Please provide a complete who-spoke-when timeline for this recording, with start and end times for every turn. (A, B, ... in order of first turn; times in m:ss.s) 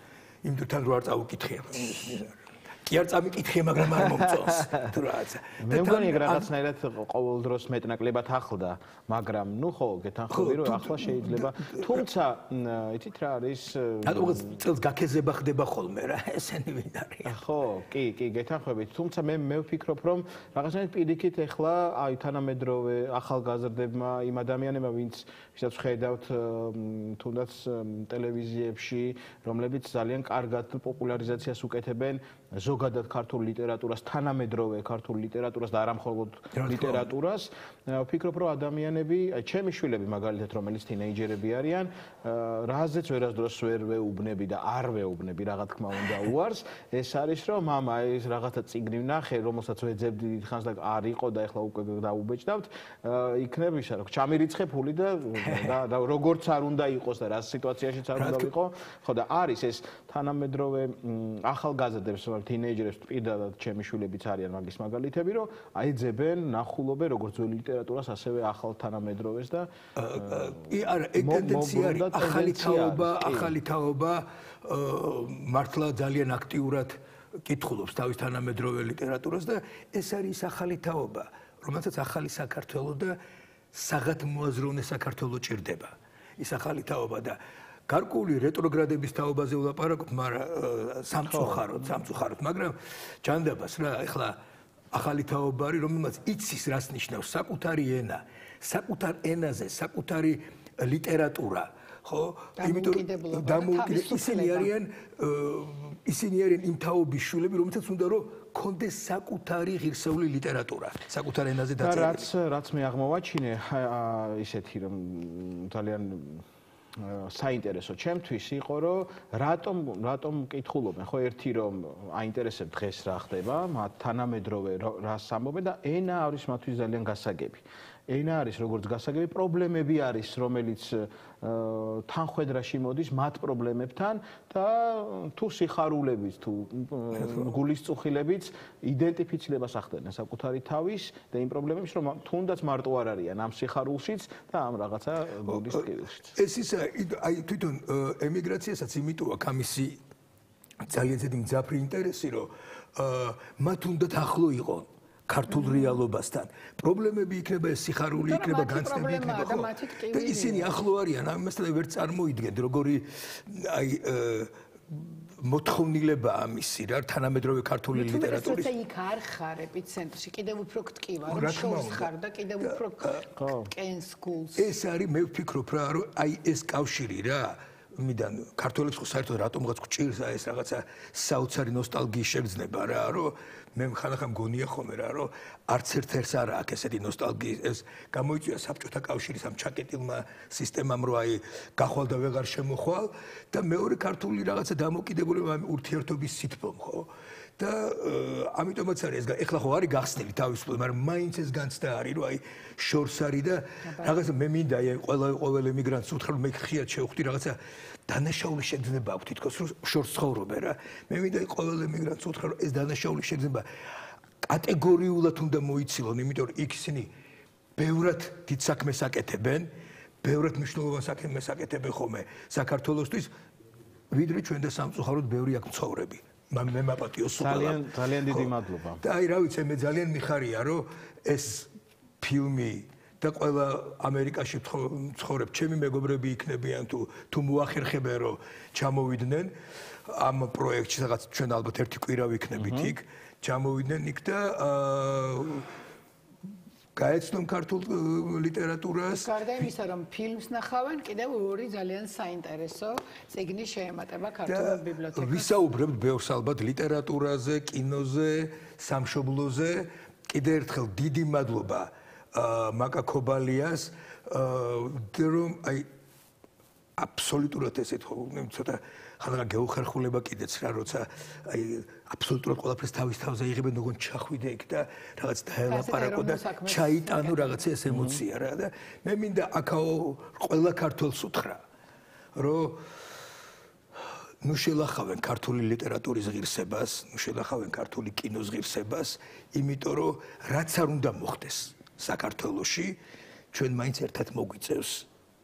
0:00.4-0:06.5 A
0:05.6-0:14.5 B
0:10.3-0:12.0 A
0:14.0-0:17.4 A
0:17.2-1:09.7 B
0:36.5-0:37.1 A
0:55.4-0:55.8 A
0:58.1-0:58.5 A
1:10.0-1:23.2 A
1:10.3-1:10.6 B
1:11.1-1:13.6 B
1:23.7-1:34.4 A
1:31.2-1:31.8 B
1:34.9-1:52.3 A
1:42.6-1:44.7 C
1:51.8-1:56.4 B
1:57.0-2:26.3 B
2:25.5-2:30.0 A
2:30.9-2:48.7 A
2:38.1-2:40.8 C
2:47.9-2:54.7 C
2:51.3-2:52.1 A
2:52.6-2:53.2 A
2:53.4-2:53.7 B
2:54.6-3:27.6 A
3:23.8-3:24.2 C
3:28.1-3:33.6 A
3:34.4-3:37.1 A
3:37.8-3:39.7 A
3:40.2-3:43.3 A
3:44.1-3:51.7 A
3:47.4-3:49.0 B
3:52.2-3:59.5 A
4:00.1-4:05.7 A
4:02.6-4:02.9 B
4:07.0-4:09.7 A
4:09.0-4:15.6 C
4:14.5-4:25.8 A
4:27.0-4:41.6 A
4:35.7-4:37.6 C
4:37.9-4:38.2 B
4:42.3-4:42.8 A
4:44.4-4:53.0 A
4:53.5-4:55.0 A